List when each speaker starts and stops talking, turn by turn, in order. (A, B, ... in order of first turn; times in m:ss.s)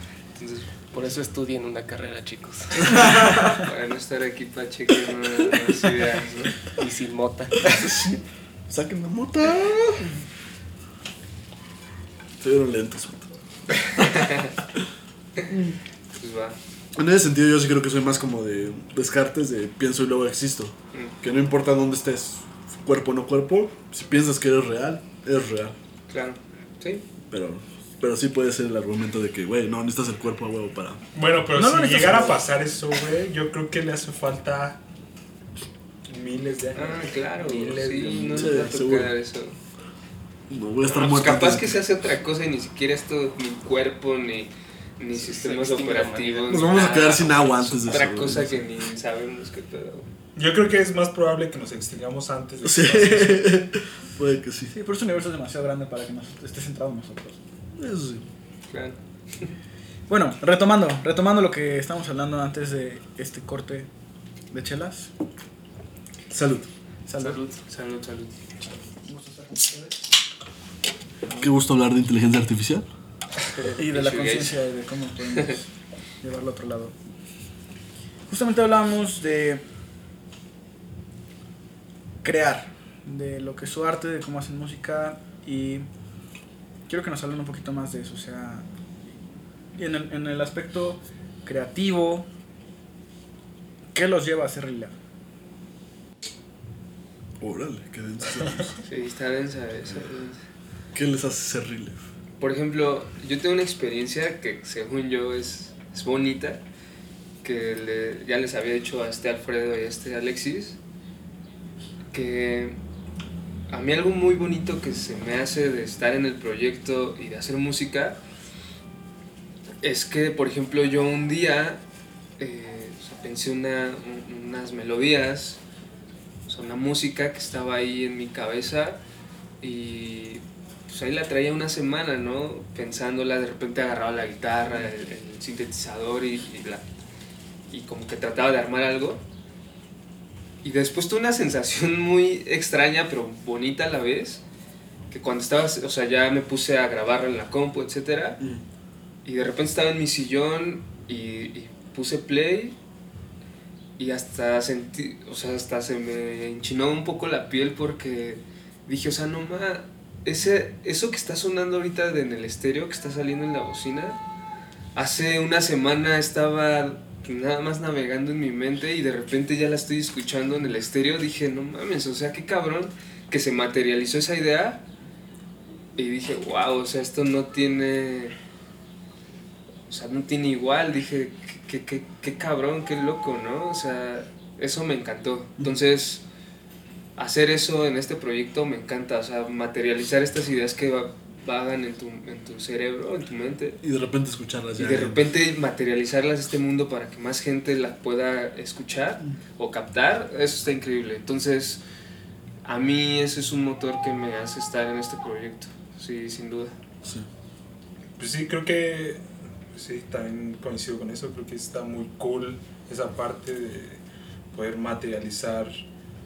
0:00.4-0:00.7 A
0:00.9-0:03.3 B
0:03.0-0:03.4 C
0:03.5-0:06.6 A
0:06.7-0:08.1 B
0:07.7-0:10.1 C
0:12.4-0:13.3 C
0:14.0-0:14.8 C
0:14.1-0:14.5 A
0:15.5-0:15.8 C
0:16.2-0:16.6 A
0:17.0-0:25.8 C
0:26.1-0:27.0 A
0:27.3-0:31.0 C
0:31.1-0:34.8 D
0:31.6-0:32.4 E
0:36.1-0:38.6 D
0:36.8-0:39.6 A
0:38.4-0:39.1 C
0:40.5-0:41.8 C
0:40.9-0:50.1 A
0:45.1-0:47.0 B
0:46.5-0:48.6 C
0:50.4-0:53.6 D
0:52.6-0:54.7 C
0:54.7-0:57.4 E
0:57.8-0:58.3 C
0:58.7-0:59.5 A
1:00.1-1:03.9 E
1:04.5-1:05.1 E
1:06.3-1:06.7 C
1:07.1-1:07.4 E
1:07.2-1:08.4 A
1:09.1-1:10.0 E
1:11.4-1:12.9 C
1:13.5-1:14.6 A
1:13.8-1:15.7 E
1:16.2-1:17.0 E
1:18.3-1:19.6 E
1:22.2-1:25.9 E
1:26.9-1:28.7 E
1:29.8-1:32.3 E
1:33.9-1:34.9 E
1:37.4-1:38.8 C
1:38.8-1:40.4 A
1:40.9-1:42.0 C
1:42.4-1:46.6 A
1:47.4-1:50.8 A
1:52.1-1:52.8 A
1:53.7-1:58.2 A
1:59.8-2:01.8 A
2:02.4-2:05.6 A
2:06.5-2:09.0 A
2:09.6-2:16.9 A
2:17.7-2:19.2 A
2:20.6-2:24.4 A
2:25.1-2:28.4 A
2:29.2-2:32.8 A
2:34.0-2:44.2 A
2:45.0-2:54.8 A
2:56.0-2:58.4 A
2:59.9-3:06.2 A
3:07.2-3:13.8 A
3:13.8-3:15.3 C
3:14.8-3:21.8 A
3:22.6-3:26.8 A
3:28.2-3:29.2 D
3:29.7-3:35.7 D